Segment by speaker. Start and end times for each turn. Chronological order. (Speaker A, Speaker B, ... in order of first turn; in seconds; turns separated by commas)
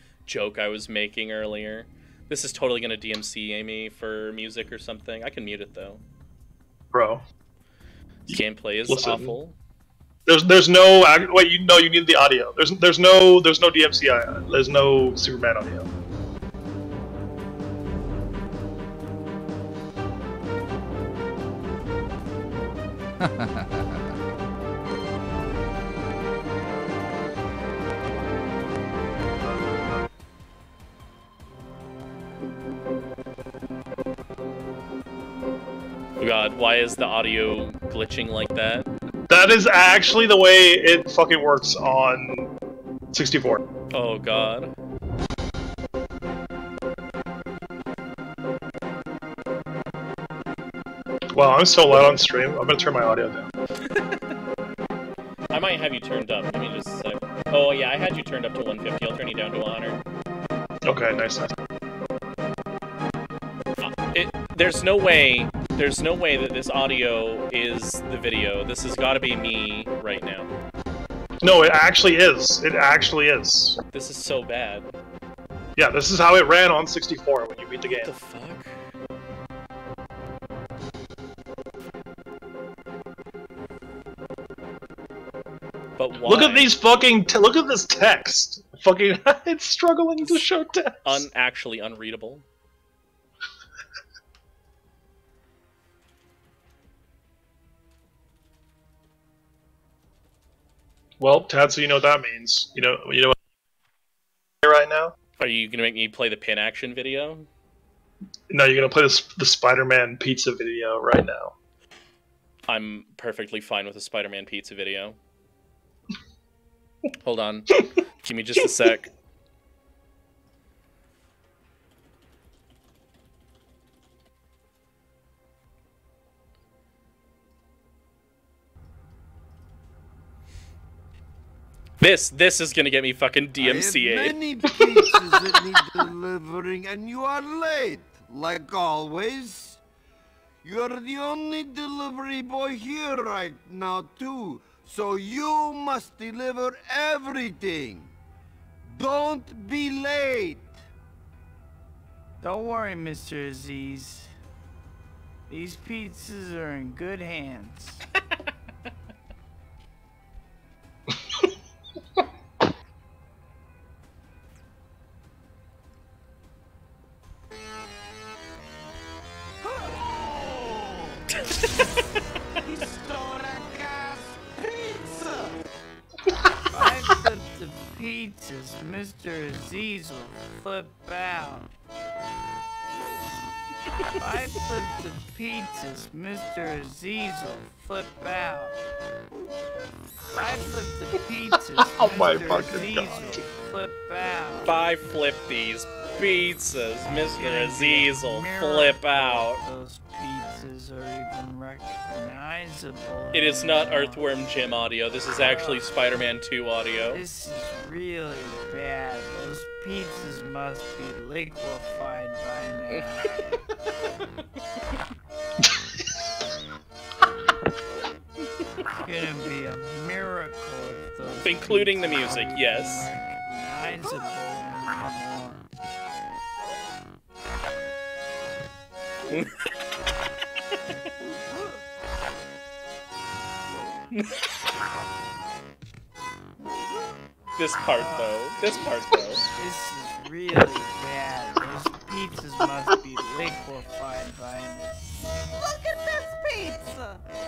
Speaker A: 0.3-6.0, Speaker B: 6.9-7.2, Speaker B: 8.3-9.4, Speaker A: 8.3-9.6, Speaker B: 10.3-15.9, Speaker A: 36.2-38.9, Speaker B: 39.3-42.5, Speaker B: 43.1-43.6, Speaker A: 43.9-44.7, Speaker B: 51.3-53.5, Speaker A: 53.9-54.2, Speaker A: 55.5-60.0, Speaker B: 60.9-61.5, Speaker A: 63.8-70.5, Speaker B: 71.4-73.8, Speaker A: 73.9-74.9, Speaker B: 75.8-78.1, Speaker A: 78.0-78.7, Speaker A: 86.0-86.8, Speaker B: 86.2-91.3, Speaker A: 91.0-92.5, Speaker B: 101.2-103.3, Speaker B: 104.6-105.1, Speaker A: 105.4-107.5, Speaker B: 108.5-111.5, Speaker A: 112.7-115.2, Speaker A: 117.2-119.1, Speaker A: 132.0-134.4, Speaker C: 133.6-139.8, Speaker C: 140.6-148.1, Speaker C: 148.8-150.8, Speaker D: 152.4-154.3, Speaker D: 155.5-158.0, Speaker D: 169.7-170.9, Speaker D: 172.6-175.5, Speaker D: 176.7-181.7, Speaker D: 184.1-188.8, Speaker D: 190.3-194.8, Speaker B: 191.9-193.4, Speaker A: 194.7-199.6, Speaker D: 197.2-204.5, Speaker A: 203.3-207.2, Speaker D: 205.3-205.9, Speaker D: 207.1-213.4, Speaker D: 219.0-225.7, Speaker A: 221.4-223.1, Speaker A: 237.6-239.4, Speaker D: 237.8-247.2